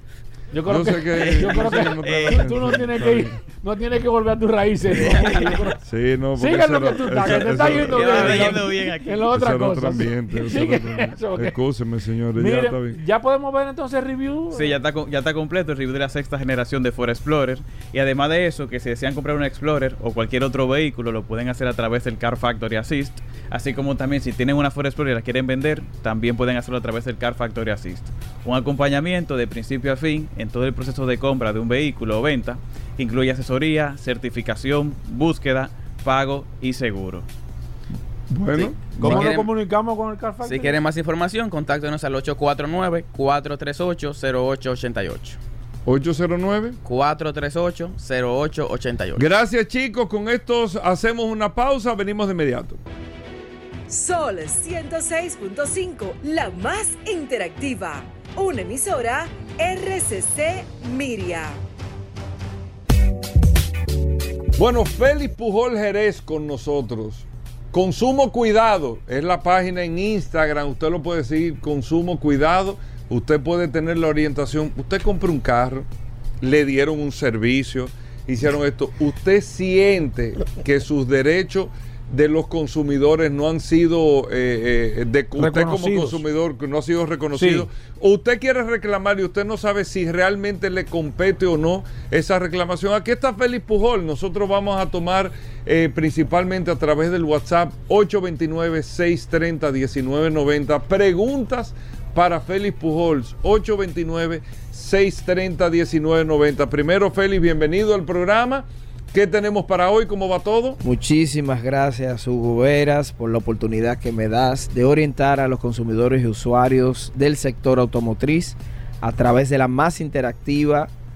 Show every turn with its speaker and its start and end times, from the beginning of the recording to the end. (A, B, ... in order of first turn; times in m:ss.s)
0:00.5-0:05.8 A
0:00.7-0:03.4 B
0:01.2-0:02.5 C
0:05.2-0:05.6 C
0:05.8-0:08.7 B
0:06.4-0:11.6 A
0:07.2-0:09.3 C
0:09.3-0:13.0 B
0:12.4-0:14.8 A
0:14.5-0:37.3 C
0:38.3-0:39.3 B
0:38.6-0:39.4 C
0:39.0-0:40.8 A
0:39.1-0:39.5 D
0:40.4-0:45.4 D
0:45.9-0:46.8 B
0:46.9-0:49.2 D
0:49.2-0:52.8 B
0:53.9-1:01.6 E
1:04.6-1:15.9 B
1:16.4-1:50.8 B
1:25.4-1:26.2 A
1:27.3-1:27.7 A
1:50.8-2:00.9 F